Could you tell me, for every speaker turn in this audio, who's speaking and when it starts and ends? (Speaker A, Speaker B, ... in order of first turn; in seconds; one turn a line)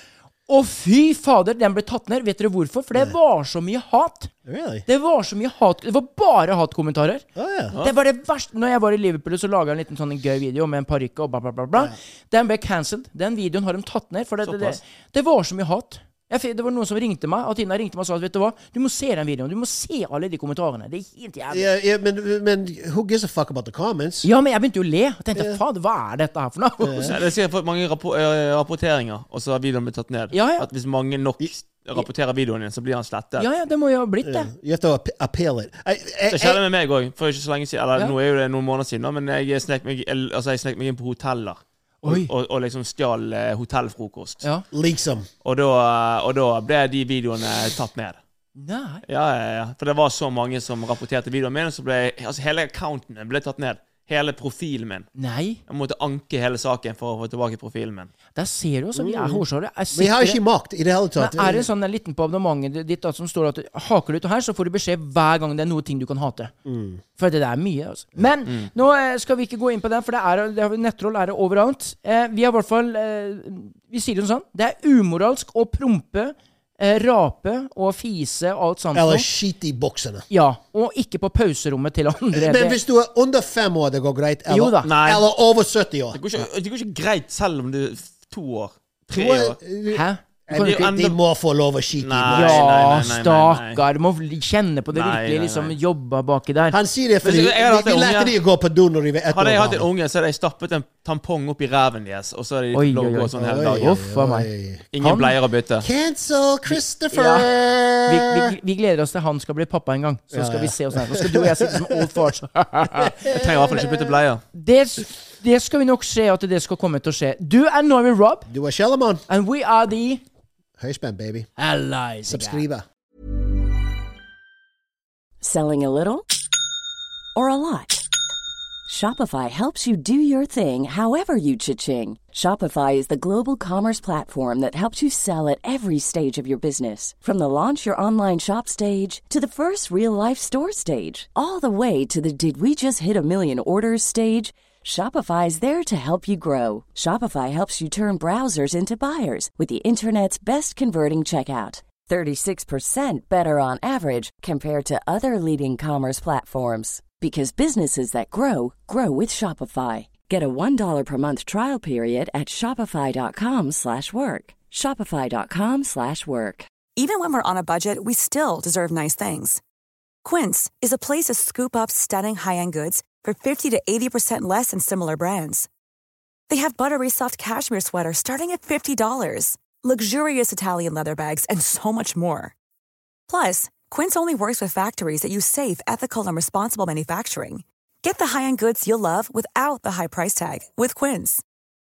Speaker A: 0.5-4.3
Speaker B: 4.5-4.8
Speaker A: 4.9-7.2
Speaker B: 7.3-7.7
Speaker A: 7.8-21.7
Speaker C: 14.4-14.8
Speaker B: 21.5-24.3
Speaker A: 24.2-27.1
Speaker B: 26.8-27.1
Speaker C: 27.0-33.5
Speaker A: 30.3-30.7
Speaker A: 33.4-34.5
Speaker B: 34.2-36.6
Speaker C: 36.3-44.5
Speaker A: 42.0-42.3
Speaker B: 44.7-45.3
Speaker C: 45.4-48.2
Speaker A: 48.5-49.0
Speaker C: 49.0-55.1
Speaker A: 55.1-55.6
Speaker C: 55.7-58.1
Speaker A: 58.4-60.4
Speaker B: 59.0-61.7
Speaker A: 61.2-66.5
Speaker B: 66.6-67.0
Speaker A: 67.2-79.3
Speaker B: 78.9-80.2
Speaker A: 80.3-82.8
Speaker B: 82.3-86.2
Speaker A: 84.5-84.9
Speaker C: 84.8-85.3
Speaker C: 86.1-89.6
Speaker B: 89.1-92.9
Speaker A: 89.9-90.9
Speaker C: 90.5-91.2
Speaker C: 92.0-93.8
Speaker A: 92.3-96.8
Speaker C: 94.9-95.7
Speaker B: 96.7-99.9
Speaker C: 97.2-98.3
Speaker C: 99.3-103.9
Speaker A: 102.7-105.3
Speaker B: 103.3-104.8
Speaker C: 104.9-105.9
Speaker B: 105.8-108.5
Speaker A: 106.7-107.5
Speaker A: 108.0-113.2
Speaker B: 110.3-112.3
Speaker B: 112.9-114.2
Speaker C: 113.3-114.4
Speaker A: 114.5-118.5
Speaker B: 118.5-119.2
Speaker A: 119.3-120.2
Speaker B: 120.8-121.5
Speaker A: 121.6-122.7
Speaker B: 122.2-122.8
Speaker D: 125.4-126.3
Speaker D: 127.3-128.0
Speaker D: 128.9-166.7
Speaker E: 166.9-169.6
Speaker E: 170.2-175.7
Speaker E: 176.5-182.5
Speaker E: 183.3-191.4